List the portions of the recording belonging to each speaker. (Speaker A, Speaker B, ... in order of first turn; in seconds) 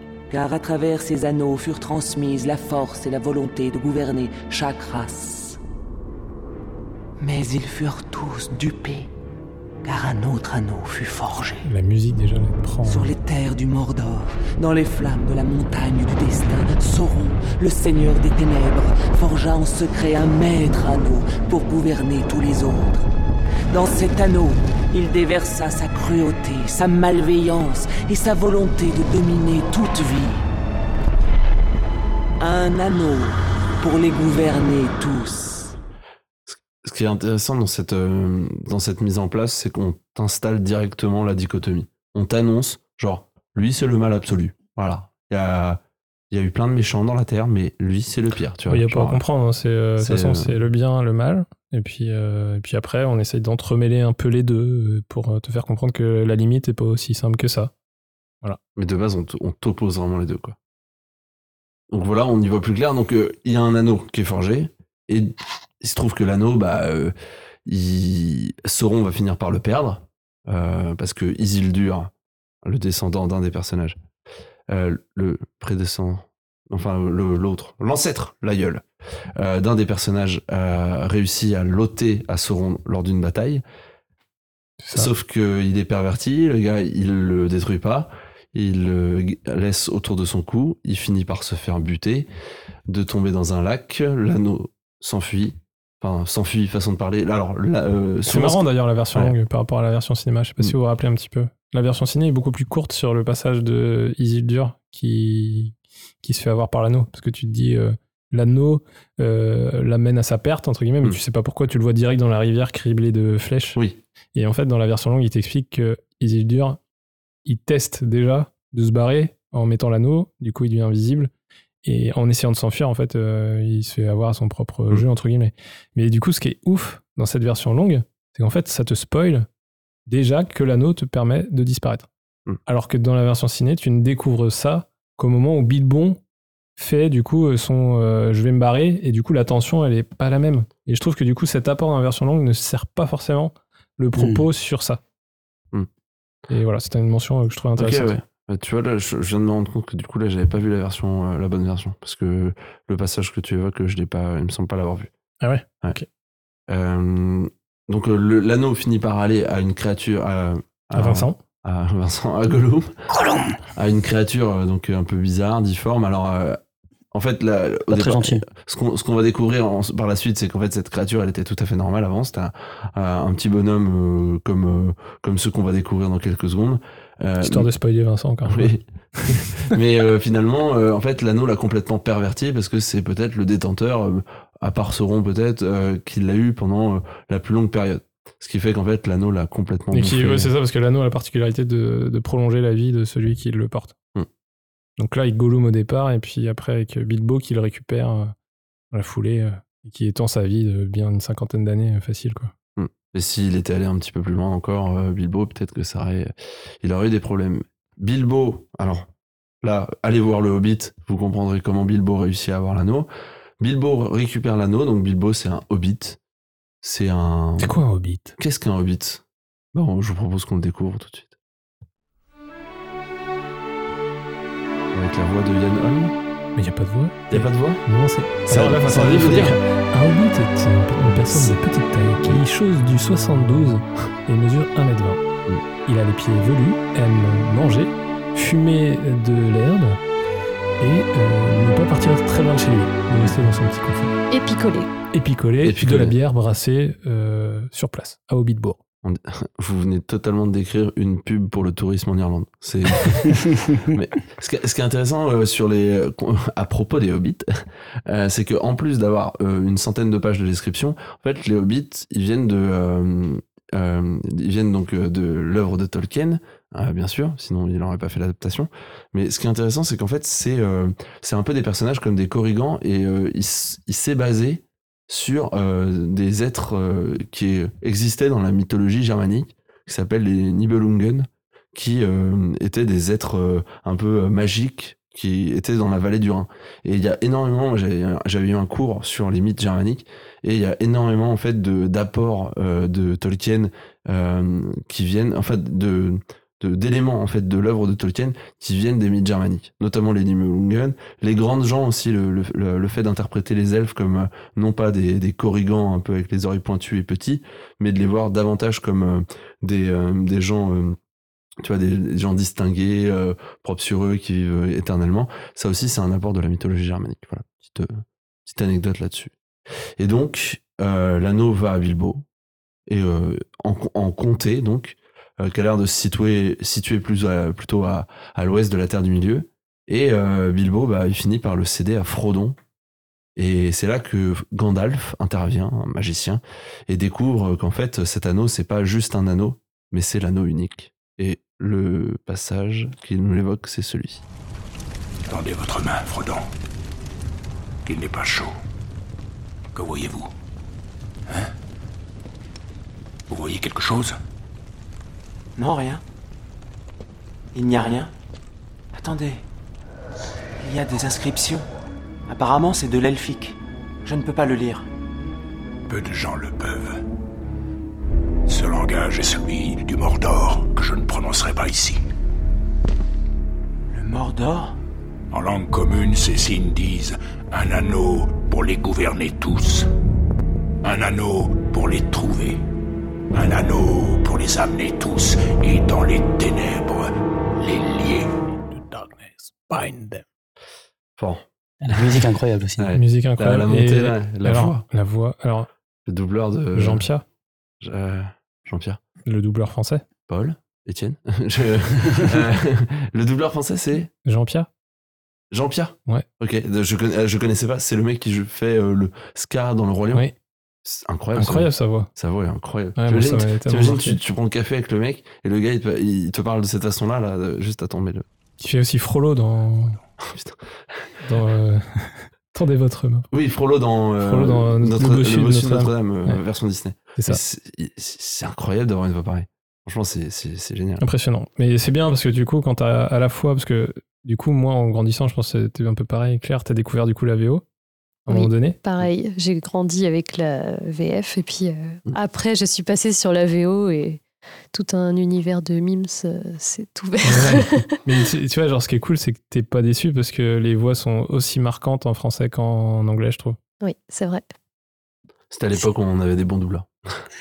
Speaker A: 0.3-5.6, 7.2-9.1, 9.8-11.6, 12.8-23.1, 23.7-30.5, 32.4-35.8, 355.6-356.0, 357.5-358.1, 358.9-359.4, 360.6-361.6, 362.3-364.9, 373.9-374.8
Speaker B: 11.6-13.1, 48.7-57.7, 84.8-85.1, 98.2-113.8, 114.3-116.8, 117.5-121.3, 121.8-129.5, 130.1-132.1, 132.7-136.2, 136.8-145.0, 146.5-148.2, 155.4-156.1, 160.9-161.4, 177.4-179.4, 189.9-193.9, 195.0-198.3, 198.9-202.5, 217.6-218.3, 226.6-235.2, 235.8-240.0, 240.8-244.1, 245.1-248.8, 392.9-395.7, 396.7-397.2, 399.2-400.0, 404.2-404.7, 411.4-412.1, 413.0-414.2, 418.6-420.0, 421.2-423.3, 424.2-426.4, 431.0-437.6, 438.2-438.8, 447.2-453.6
Speaker C: 36.5-45.8, 46.3-49.2, 50.0-50.5, 58.7-60.5, 61.9-67.1, 67.7-72.1, 72.6-74.0, 74.7-78.8, 79.3-83.6, 84.9-92.3, 92.9-99.3, 113.8-114.0, 147.8-155.1, 156.7-163.0, 163.8-166.6, 167.1-177.7, 178.5-190.5, 202.8-209.1, 209.6-213.1, 213.6-216.2, 216.8-217.7, 218.4-219.2, 219.7-221.3, 224.9-226.1, 227.3-227.8, 228.5-229.5, 245.6-246.2, 249.0-311.0, 311.6-319.3, 320.0-322.2, 322.9-332.6, 333.4-344.2, 391.2-391.4, 392.8-394.8, 396.1-397.0, 397.8-399.0, 400.3-404.1, 405.5-410.2, 410.8-418.2, 420.2-420.6, 423.3-431.0, 455.5-457.2
Speaker D: 144.2-144.5, 163.1-163.6, 167.9-168.4, 391.8-392.9
Speaker E: 244.3-244.9, 438.3-444.2, 444.7-447.9, 453.8-454.4
Speaker F: 345.3-346.5, 347.9-348.6, 349.7-350.3, 353.3-354.2, 365.9-367.0, 368.5-372.0, 375.3-379.9, 380.8-382.6, 383.3-390.2